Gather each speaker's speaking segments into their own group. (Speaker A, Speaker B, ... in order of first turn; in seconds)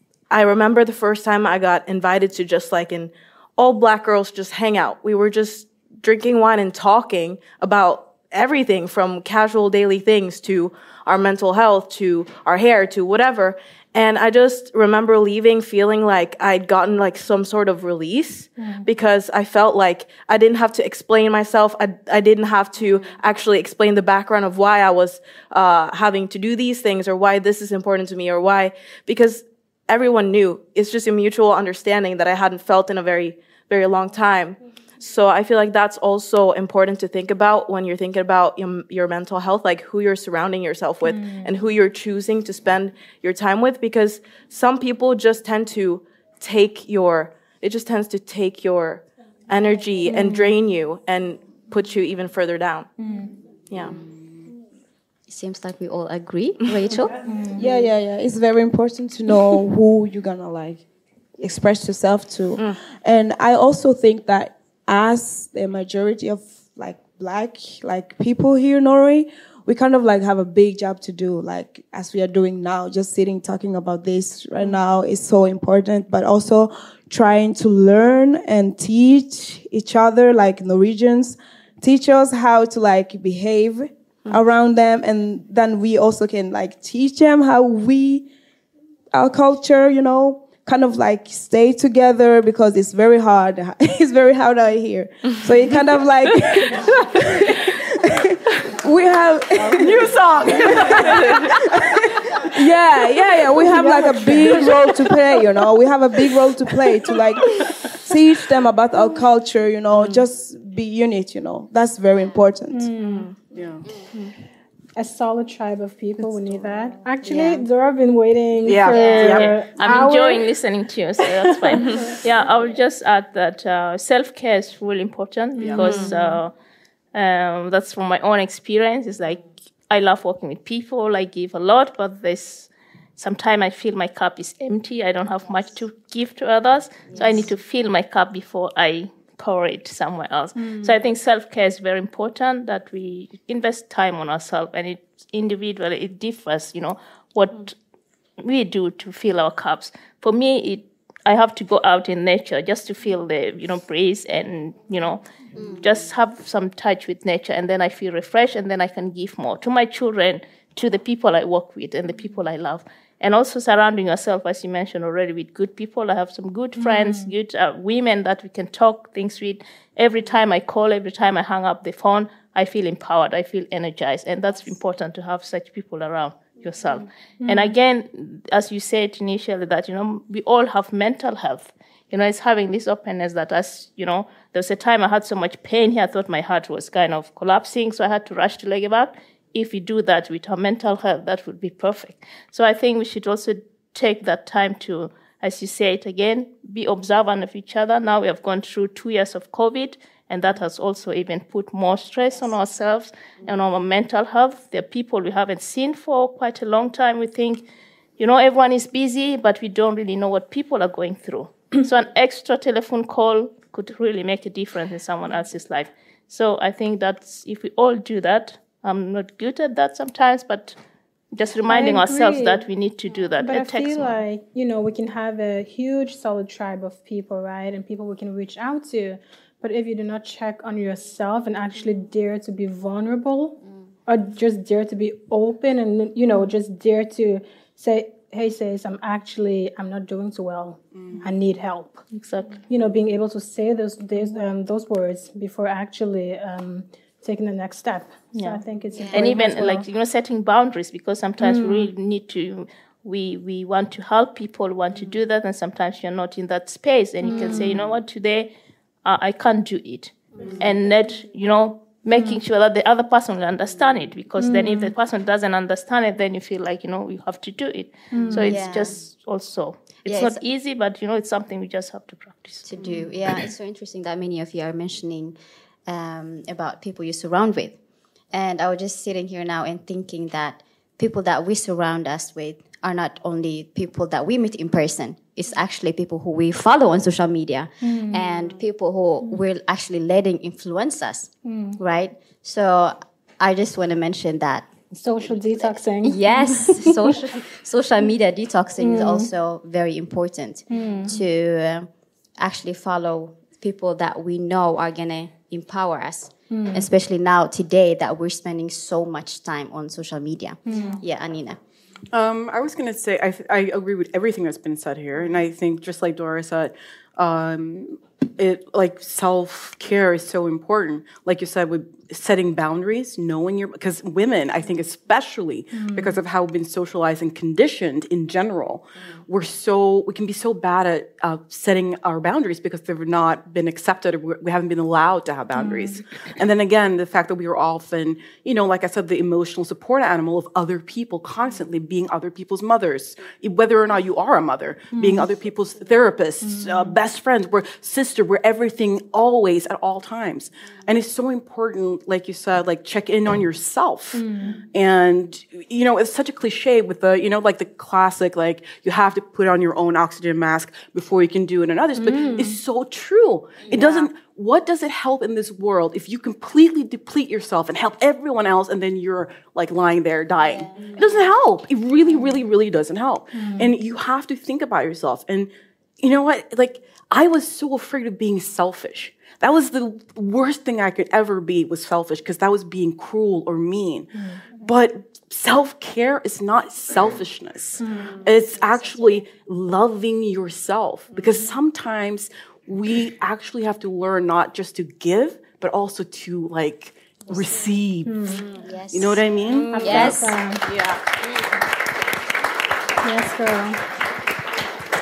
Speaker A: 0.3-52.9, 53.7-53.9
Speaker B: 18.6-18.9, 50.0-50.5, 53.0-53.3, 57.2-57.6, 112.7-113.3, 115.0-120.4, 121.8-122.1, 125.7-126.4, 140.6-140.9, 166.8-167.3, 177.4-177.7, 221.7-222.7, 223.4-242.0, 242.7-249.8, 251.4-251.9, 257.2-257.8, 262.1-262.4, 264.4-264.9, 268.1-268.6, 287.8-288.3, 291.4-291.8, 294.9-297.1, 298.8-299.3, 300.7-301.2, 306.5-306.9, 310.6-311.0, 325.7-326.1, 335.5-336.0, 344.9-345.2, 346.4-346.9, 354.1-354.6, 362.0-362.6, 373.3-373.7, 387.8-388.1, 398.0-398.4, 399.7-400.6, 403.0-403.8
Speaker C: 55.3-57.1, 117.2-117.6, 118.9-119.3, 137.1-137.5, 155.6-155.9, 248.9-249.3, 268.1-269.0, 270.0-270.4, 272.6-275.4, 275.9-277.8, 278.3-294.7, 295.2-311.6, 363.7-364.1, 370.4-370.9, 397.3-397.6, 398.6-400.9
Speaker D: 57.5-60.8, 61.4-88.3, 89.1-101.5, 102.4-112.9
Speaker E: 99.6-102.0, 102.6-103.5, 109.9-110.2, 113.5-113.9, 118.6-119.6, 125.6-125.9, 240.9-241.2, 312.1-384.1, 384.6-400.2
Speaker F: 119.1-126.5, 127.1-147.7, 148.4-155.2, 155.8-207.6, 208.2-220.8, 221.3-224.2, 242.1-242.6, 248.3-248.6, 249.1-258.5, 259.0-272.6